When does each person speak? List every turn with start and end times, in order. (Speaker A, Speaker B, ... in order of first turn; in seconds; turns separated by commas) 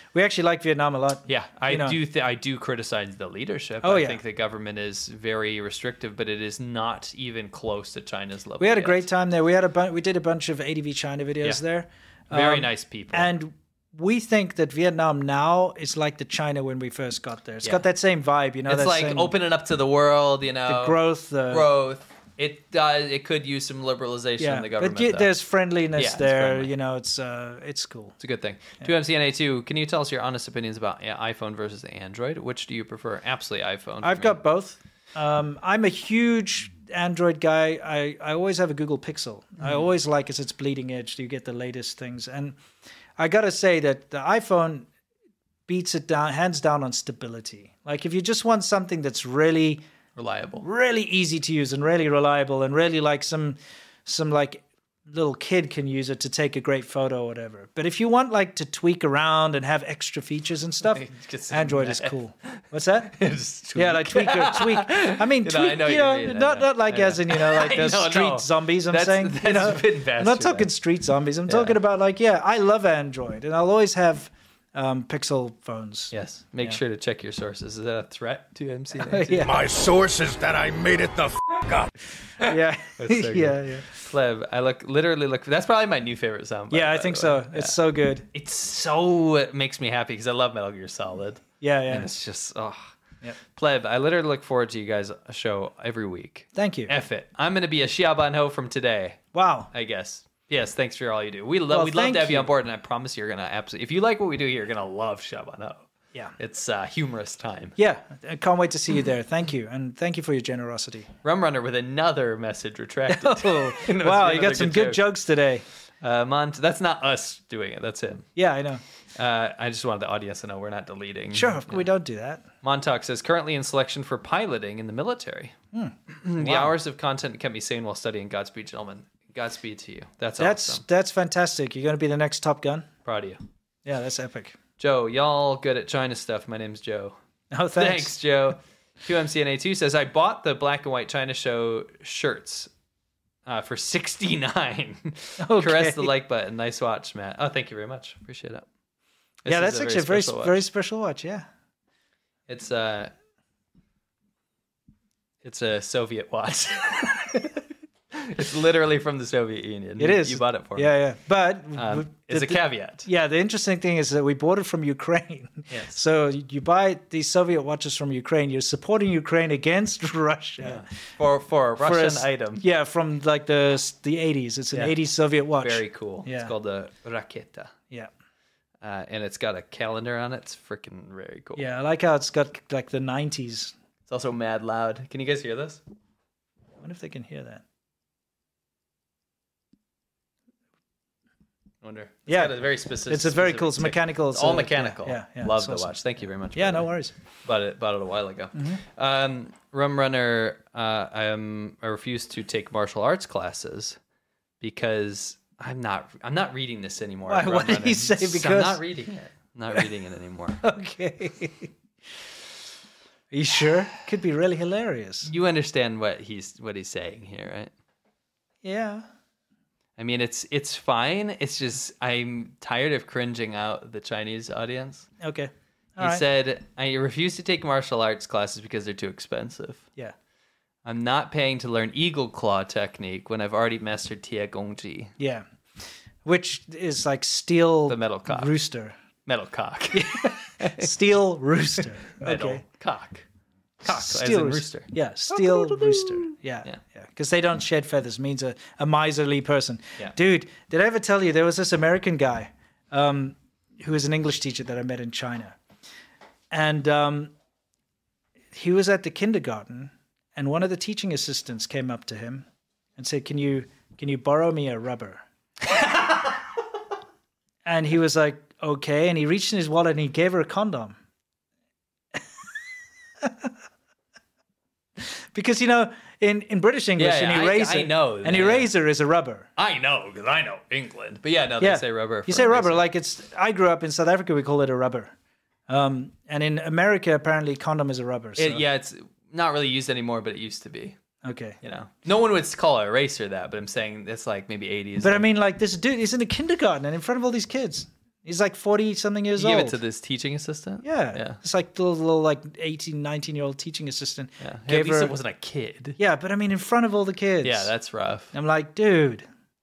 Speaker A: 0.1-2.0, Speaker B: 1.3-9.1, Speaker A: 3.8-4.2, Speaker A: 8.6-19.3, Speaker B: 12.3-13.3, Speaker B: 18.7-25.3, Speaker A: 20.7-21.7, Speaker A: 24.4-28.1, Speaker B: 25.9-26.7, Speaker B: 28.2-34.4, Speaker A: 34.0-42.6, Speaker A: 43.2-44.9, Speaker A: 45.7-49.9, Speaker B: 50.2-50.6, Speaker A: 50.6-63.2, Speaker B: 60.8-70.7, Speaker A: 63.8-76.8, Speaker B: 71.5-71.8, Speaker B: 76.1-79.6, Speaker A: 79.0-79.7, Speaker C: 79.5-81.9, Speaker A: 82.4-83.9, Speaker B: 82.4-87.8, Speaker A: 86.7-88.3, Speaker B: 88.3-92.9, Speaker A: 91.6-92.1, Speaker B: 93.5-99.2, Speaker A: 96.5-96.9, Speaker A: 99.3-99.7, Speaker B: 99.7-107.8, Speaker A: 101.7-102.5, Speaker A: 107.8-111.1, Speaker B: 111.2-115.0, Speaker A: 113.1-115.7, Speaker B: 116.0-118.3, Speaker A: 118.4-118.8, Speaker B: 119.2-121.9, Speaker A: 121.3-122.5, Speaker B: 122.6-125.6, Speaker A: 125.7-126.7, Speaker B: 126.1-130.8, Speaker A: 130.4-132.9, Speaker B: 133.1-133.4, Speaker A: 133.8-134.6, Speaker B: 134.8-137.2, Speaker A: 137.5-138.2, Speaker B: 137.8-142.7, Speaker B: 143.5-148.7, Speaker A: 145.4-146.1, Speaker B: 149.4-150.6, Speaker A: 149.5-151.5, Speaker B: 152.5-153.1, Speaker B: 155.4-160.9, Speaker A: 160.0-170.9, Speaker B: 161.8-163.1, Speaker B: 165.7-166.0, Speaker B: 170.6-172.6, Speaker A: 171.8-176.5, Speaker B: 175.6-177.7, Speaker B: 178.8-181.7, Speaker A: 181.6-183.7, Speaker B: 184.1-185.8, Speaker A: 186.8-187.6, Speaker B: 191.8-204.0, Speaker A: 192.3-196.0, Speaker A: 196.5-197.1, Speaker A: 198.6-198.8, Speaker B: 204.6-210.6, Speaker A: 207.3-208.8, Speaker A: 210.6-211.7, Speaker A: 213.3-215.3, Speaker B: 215.2-217.7, Speaker A: 218.6-219.1, Speaker B: 220.0-225.1, Speaker A: 225.2-226.2, Speaker B: 226.0-229.9, Speaker B: 230.8-235.1, Speaker A: 235.2-235.5, Speaker A: 236.2-238.9, Speaker B: 237.9-238.6, Speaker B: 239.3-240.9, Speaker A: 239.9-242.6, Speaker B: 242.2-243.2, Speaker B: 243.8-246.8, Speaker A: 243.8-255.6, Speaker A: 256.5-257.3, Speaker A: 258.5-262.5, Speaker A: 263.0-265.2, Speaker A: 267.6-271.0, Speaker A: 273.2-273.5, Speaker A: 275.0-279.5, Speaker B: 277.0-278.7, Speaker B: 279.6-282.9, Speaker A: 281.6-285.1, Speaker A: 285.7-288.6, Speaker B: 288.4-291.0, Speaker A: 291.2-291.6, Speaker B: 291.6-295.3, Speaker A: 295.0-299.8, Speaker B: 299.4-301.4, Speaker A: 300.8-305.1, Speaker B: 304.4-306.0, Speaker A: 306.0-307.7, Speaker B: 307.4-308.3, Speaker A: 308.3-309.3